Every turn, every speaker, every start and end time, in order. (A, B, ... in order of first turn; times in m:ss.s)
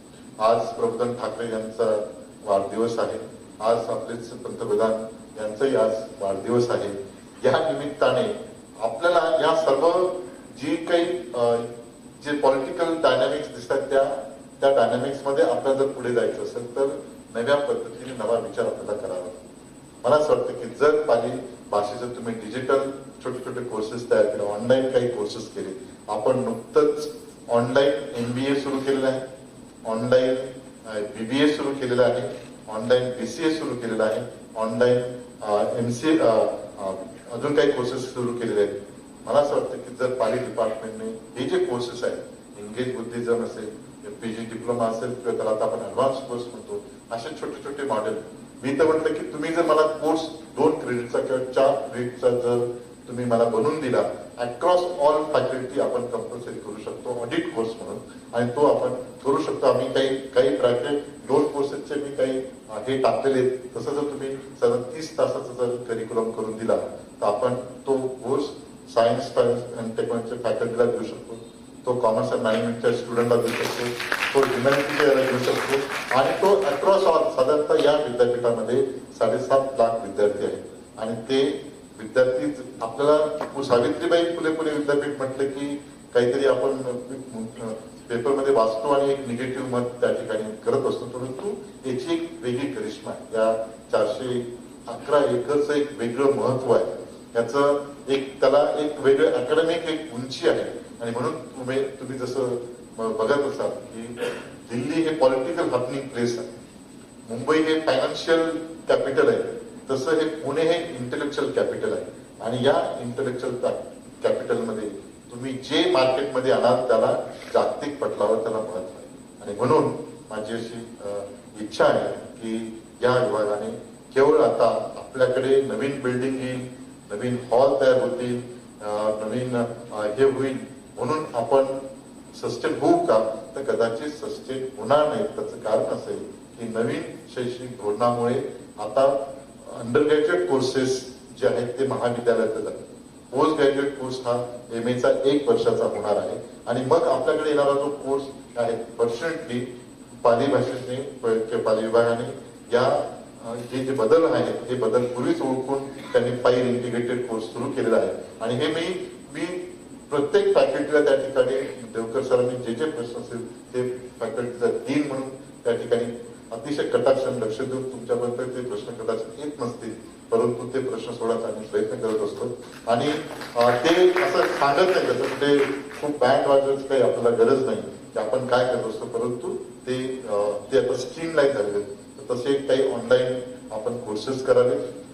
0:00.4-0:11.7 A
0:12.2-0:19.4 A
0:20.0-0:29.2 A
0:29.8-1:46.5 A
1:47.3-2:29.7 A
2:30.2-3:04.8 A